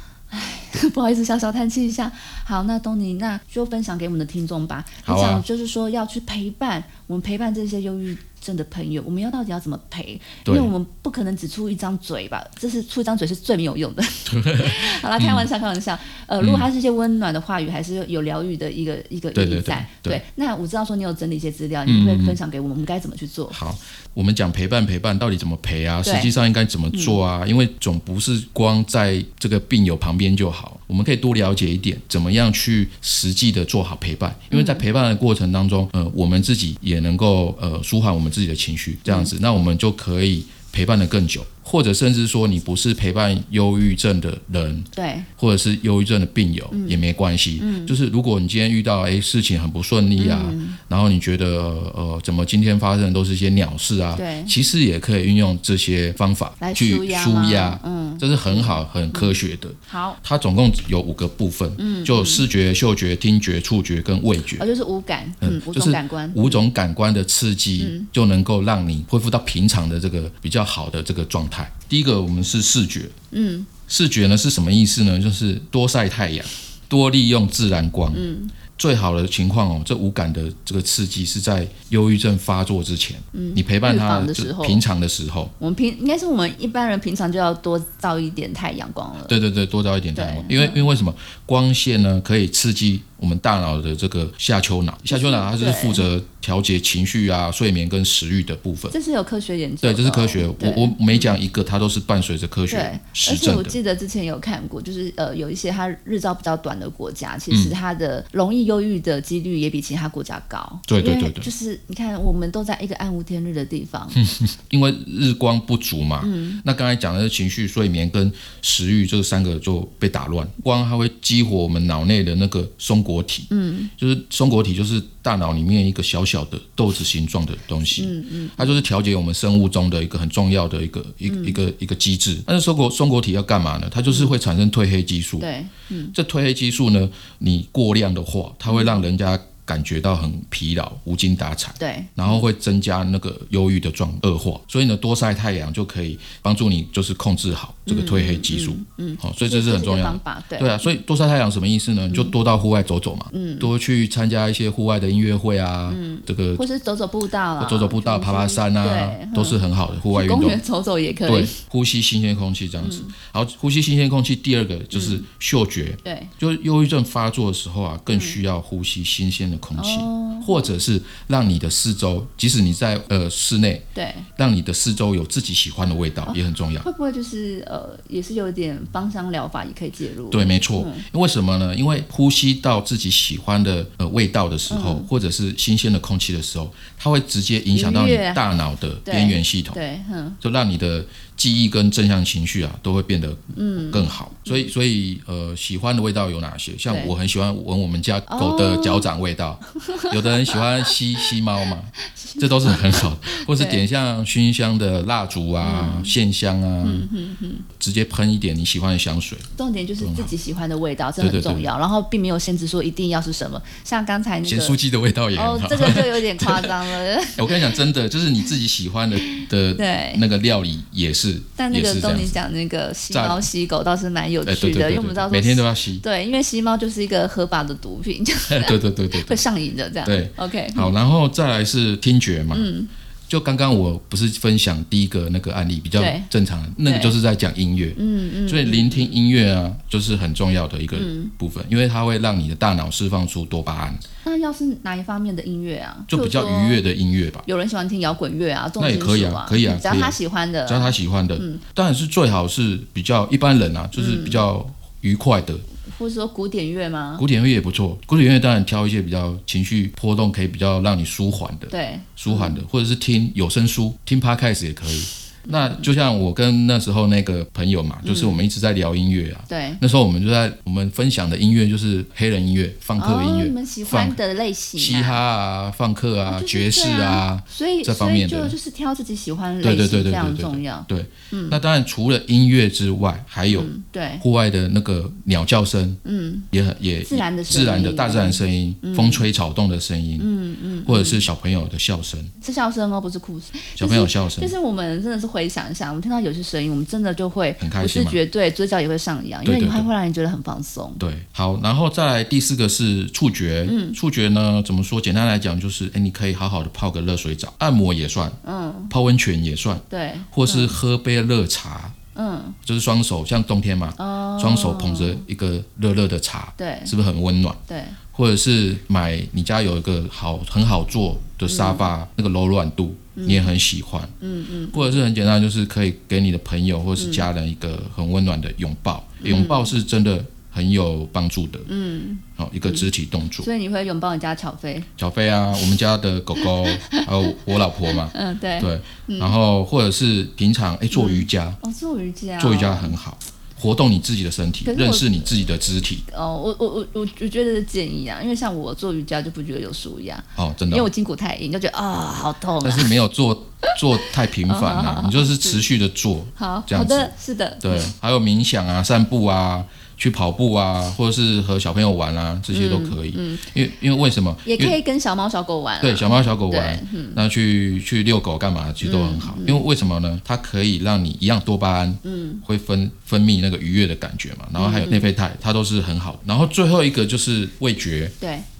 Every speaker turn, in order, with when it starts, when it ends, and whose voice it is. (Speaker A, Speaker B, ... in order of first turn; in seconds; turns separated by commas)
Speaker A: 0.3-23.6, Speaker B: 5.0-5.4, Speaker B: 10.4-10.7, Speaker B: 14.3-15.5, Speaker B: 16.4-16.7, Speaker B: 19.3-20.2, Speaker B: 21.9-22.4, Speaker B: 23.5-64.7, Speaker A: 26.0-26.3, Speaker A: 34.5-34.8, Speaker A: 39.0-39.3, Speaker A: 44.9-45.3, Speaker A: 46.7-47.0, Speaker A: 47.6-48.0, Speaker A: 50.2-50.8, Speaker A: 54.1-54.5, Speaker A: 56.6-60.2, Speaker A: 61.8-62.5, Speaker A: 64.6-66.6, Speaker B: 65.4-73.1, Speaker A: 67.8-68.1, Speaker A: 73.3-73.7, Speaker B: 73.9-85.5, Speaker A: 78.1-78.5, Speaker A: 83.3-84.8, Speaker A: 85.6-89.3, Speaker B: 89.2-98.9, Speaker A: 90.1-90.8, Speaker A: 95.1-96.0, Speaker A: 98.9-101.3, Speaker B: 99.8-103.8, Speaker A: 102.7-114.2, Speaker B: 107.5-107.7, Speaker B: 110.9-111.5, Speaker B: 114.2-135.5, Speaker A: 116.2-116.6, Speaker A: 123.5-123.9, Speaker A: 128.0-128.8, Speaker A: 131.3-131.6, Speaker A: 134.1-134.3, Speaker A: 135.4-136.1, Speaker B: 136.1-156.6, Speaker A: 138.7-139.0, Speaker A: 141.8-142.5, Speaker A: 147.8-150.9, Speaker A: 153.3-153.7, Speaker A: 155.9-159.6, Speaker B: 157.6-160.6, Speaker A: 160.1-161.6, Speaker B: 161.2-176.8, Speaker A: 162.8-163.1, Speaker A: 164.9-165.2, Speaker A: 166.0-166.3, Speaker A: 168.1-168.4, Speaker A: 169.8-170.7, Speaker A: 173.9-174.3, Speaker A: 176.2-181.0, Speaker B: 180.3-189.8, Speaker A: 184.7-185.1, Speaker A: 187.7-188.4, Speaker A: 189.0-190.4, Speaker B: 190.4-207.1, Speaker A: 193.5-194.7, Speaker A: 196.9-197.1, Speaker A: 198.3-199.1, Speaker A: 199.7-201.3, Speaker A: 202.0-203.8, Speaker A: 205.6-206.1, Speaker A: 206.8-207.6, Speaker B: 207.7-209.5, Speaker A: 209.6-214.8, Speaker B: 210.0-210.3, Speaker B: 211.2-211.7, Speaker B: 214.4-216.8, Speaker A: 215.3-217.8, Speaker B: 217.3-222.4, Speaker A: 219.2-220.2, Speaker A: 221.6-230.9, Speaker B: 223.1-223.5, Speaker B: 224.4-226.0, Speaker B: 228.5-229.4, Speaker B: 230.0-232.7, Speaker A: 232.5-232.9, Speaker B: 233.3-244.0, Speaker A: 236.0-236.3, Speaker A: 236.8-237.1, Speaker A: 237.9-239.1, Speaker A: 240.9-241.3, Speaker A: 244.2-246.8, Speaker B: 246.1-247.4, Speaker A: 247.4-251.6, Speaker B: 248.8-255.6, Speaker A: 253.9-254.4, Speaker A: 255.8-257.2, Speaker B: 257.2-274.2, Speaker A: 261.7-262.6, Speaker A: 265.4-265.9, Speaker A: 268.0-268.4, Speaker A: 269.5-269.8, Speaker A: 273.0-275.2, Speaker B: 274.8-278.6, Speaker A: 276.3-281.6, Speaker B: 279.6-286.0, Speaker A: 283.5-284.2, Speaker A: 286.0-286.5, Speaker B: 286.5-290.3, Speaker A: 287.0-289.2, Speaker A: 290.2-291.2, Speaker B: 290.8-292.3, Speaker A: 292.4-301.0, Speaker B: 293.8-294.5, Speaker B: 297.6-298.2, Speaker B: 299.4-299.9, Speaker B: 301.0-308.4, Speaker A: 303.6-304.0, Speaker A: 308.4-308.9, Speaker B: 308.9-311.9, Speaker A: 309.9-310.7, Speaker A: 312.1-312.6, Speaker B: 312.6-317.6, Speaker A: 314.0-315.2, Speaker A: 316.6-316.9, Speaker A: 317.7-318.0, Speaker B: 318.1-324.1, Speaker A: 321.4-321.9, Speaker A: 323.1-323.5, Speaker A: 324.2-324.9, Speaker B: 324.7-331.7, Speaker A: 327.0-327.2, Speaker A: 329.2-329.7, Speaker A: 331.7-332.9, Speaker B: 332.4-333.5, Speaker A: 333.4-334.9, Speaker B: 335.0-341.6, Speaker A: 336.4-339.3, Speaker A: 340.9-342.9, Speaker B: 342.4-346.0, Speaker A: 344.6-345.4, Speaker A: 346.1-352.9, Speaker B: 350.4-350.9, Speaker B: 352.6-357.1, Speaker A: 353.6-355.6, Speaker A: 356.4-357.9, Speaker B: 357.6-364.8, Speaker A: 362.5-363.5, Speaker A: 364.4-367.2, Speaker B: 365.8-378.1, Speaker A: 368.8-369.6, Speaker A: 372.0-372.4, Speaker A: 374.6-375.1, Speaker A: 378.2-378.4